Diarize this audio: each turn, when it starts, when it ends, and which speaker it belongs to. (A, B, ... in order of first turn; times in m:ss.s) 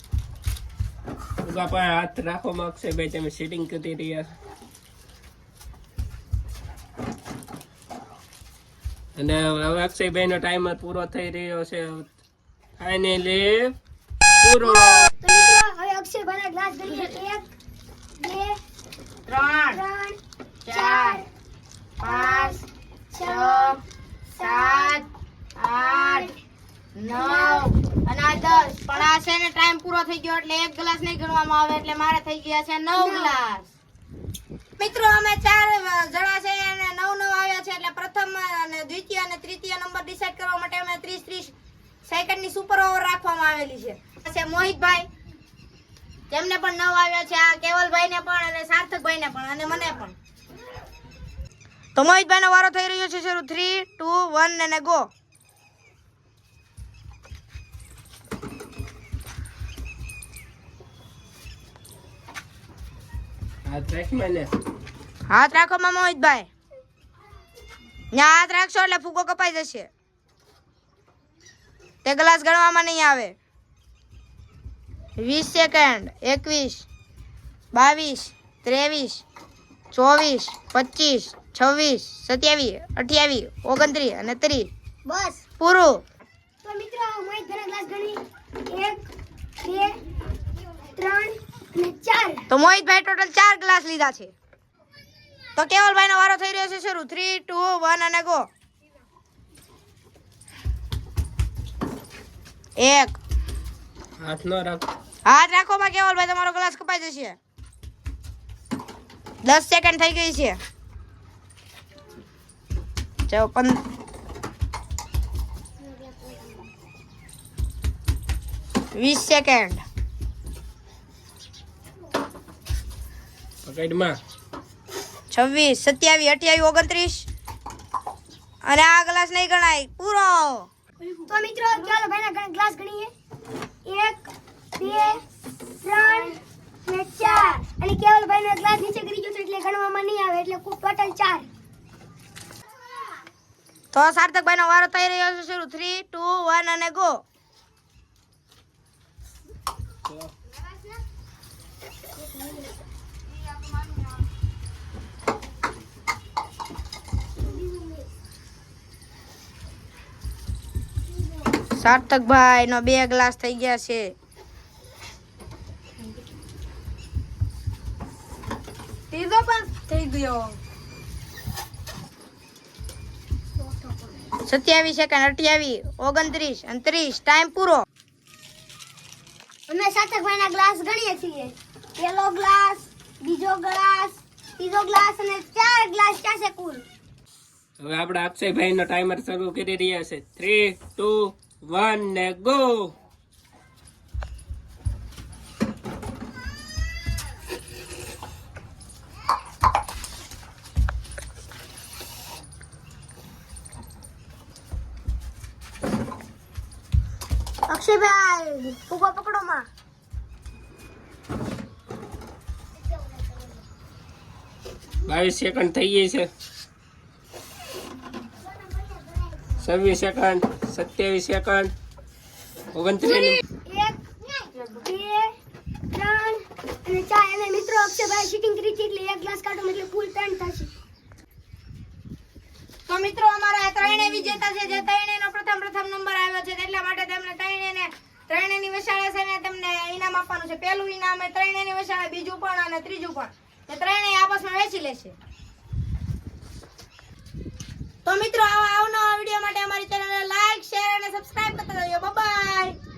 0:01.4-0:04.3 A
0:09.2-0:12.2 A
0:12.8-0:13.8 A
0:14.4-0:15.1 A
0:14.6-0:17.5 B
0:18.2-0:18.6 B
0:19.3-0:19.8 C
0:19.7-0:21.3 B
0:20.6-0:21.2 C
0:22.0-0:22.6 C
0:22.0-0:23.8 B
0:23.2-0:23.8 C
0:24.4-0:25.0 B
0:24.4-0:25.1 C
0:25.6-0:26.3 C
0:25.8-0:26.4 B
0:27.0-0:33.7 C
0:27.1-0:27.7 B
0:28.3-0:29.0 B
0:32.9-0:33.4 B
0:34.8-0:41.5 C
0:42.1-0:45.1 C
0:46.3-0:50.2 C
0:52.0-0:55.1 C
1:03.7-1:04.5 A
1:05.3-1:06.5 C
1:08.1-1:09.9 C
1:12.0-1:13.4 C
1:15.2-1:16.9 C
1:17.7-1:19.2 C
1:19.9-1:24.7 C
1:25.1-1:25.4 B
1:25.6-1:26.0 C
1:26.6-1:29.1 B
1:29.6-1:30.0 B
1:31.0-1:32.5 B
1:32.5-1:34.3 C
1:35.6-1:38.5 C
1:42.8-1:43.2 C
1:44.2-1:44.9 A
1:45.3-1:47.4 C
1:49.4-1:50.6 C
1:53.3-1:53.8 C
1:59.0-1:59.8 C
2:03.6-2:04.2 A
2:05.3-2:07.3 C
2:08.6-2:10.7 C
2:11.3-2:13.1 B
2:13.8-2:15.2 B
2:15.8-2:21.5 B
2:23.9-2:27.2 C
2:30.1-2:30.3 A
2:41.8-2:44.2 C
2:49.1-2:50.5 C
2:54.4-2:57.8 C
2:59.7-3:06.8 B
3:07.8-3:12.9 A
3:27.7-3:29.6 B
3:35.0-3:36.3 A
3:38.7-3:39.4 B
3:39.6-3:41.7 A
3:42.7-3:43.4 A
3:43.2-3:45.3 B
3:45.9-3:50.7 B
3:52.9-4:05.2 C
4:08.0-4:12.8 C